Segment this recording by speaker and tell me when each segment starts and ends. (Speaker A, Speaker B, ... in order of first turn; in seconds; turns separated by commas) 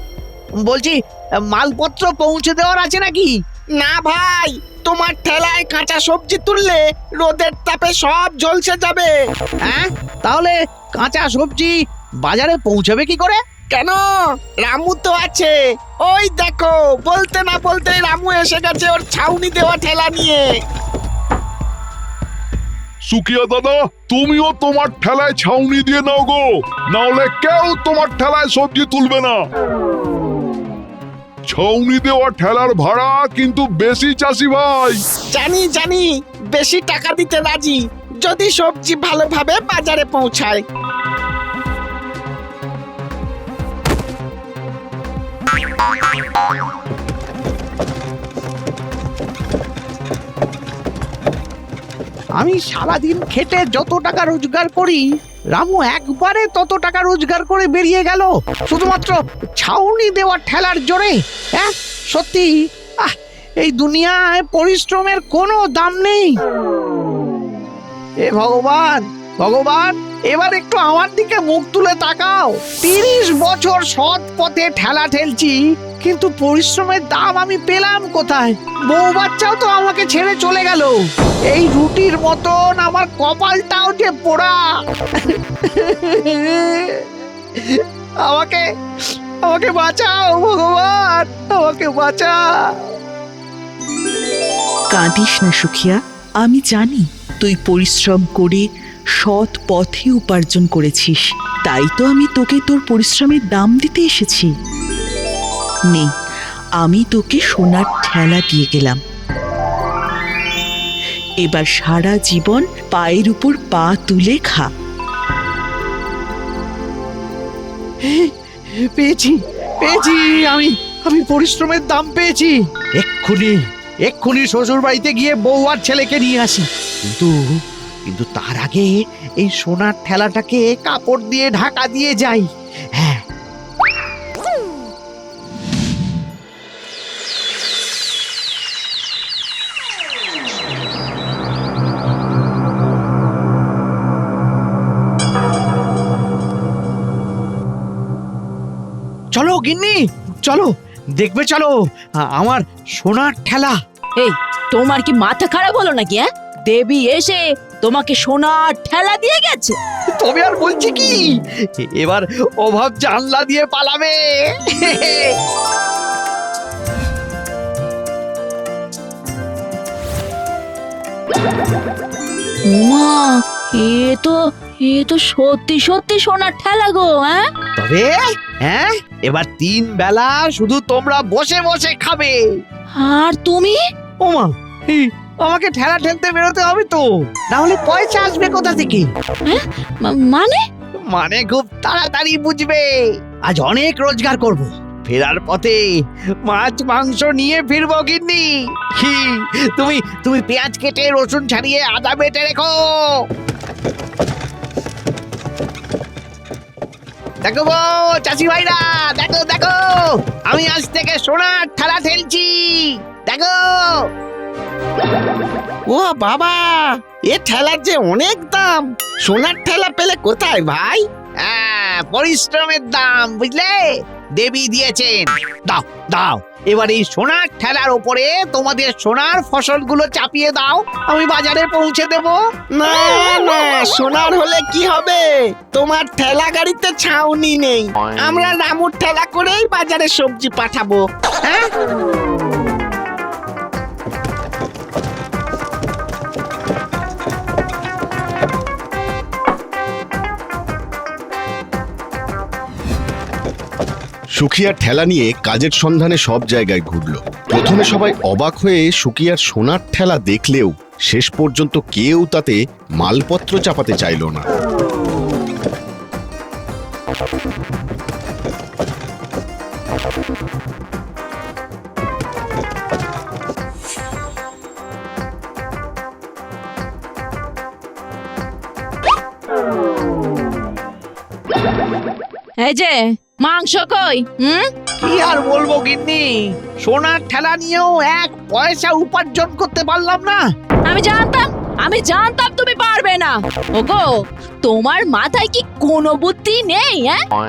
Speaker A: 0.6-3.3, Speaker B: 3.8-9.1, Speaker A: 9.6-13.4, Speaker B: 13.7-14.0, Speaker B: 14.6-20.4, Speaker C: 23.1-29.4, Speaker C: 31.5-35.0, Speaker B: 35.3-40.6, Speaker A: 52.4-66.3, Speaker A: 68.2-81.0, Speaker A: 81.5-84.6, Speaker A: 85.2-87.0, Speaker A: 87.5-88.7, Speaker A: 89.4-92.4, Speaker D: 94.9-98.6, Speaker D: 99.2-104.5, Speaker D: 106.8-109.0, Speaker D: 111.4-114.7, Speaker A: 118.0-133.2, Speaker A: 149.3-153.8, Speaker E: 154.2-159.7, Speaker A: 160.1-165.3, Speaker E: 172.7-177.5, Speaker A: 177.8-182.4, Speaker E: 183.0-183.8, Speaker A: 184.2-189.1, Speaker E: 189.4-190.6, Speaker A: 191.1-192.9, Speaker A: 193.4-195.8, Speaker A: 196.4-203.2, Speaker A: 207.4-214.0, Speaker B: 215.9-221.0, Speaker A: 221.4-223.8, Speaker A: 224.4-232.4, Speaker B: 232.8-241.0, Speaker A: 241.4-241.7, Speaker F: 254.4-264.4, Speaker E: 282.6-284.7, Speaker A: 285.0-290.4, Speaker E: 290.9-297.2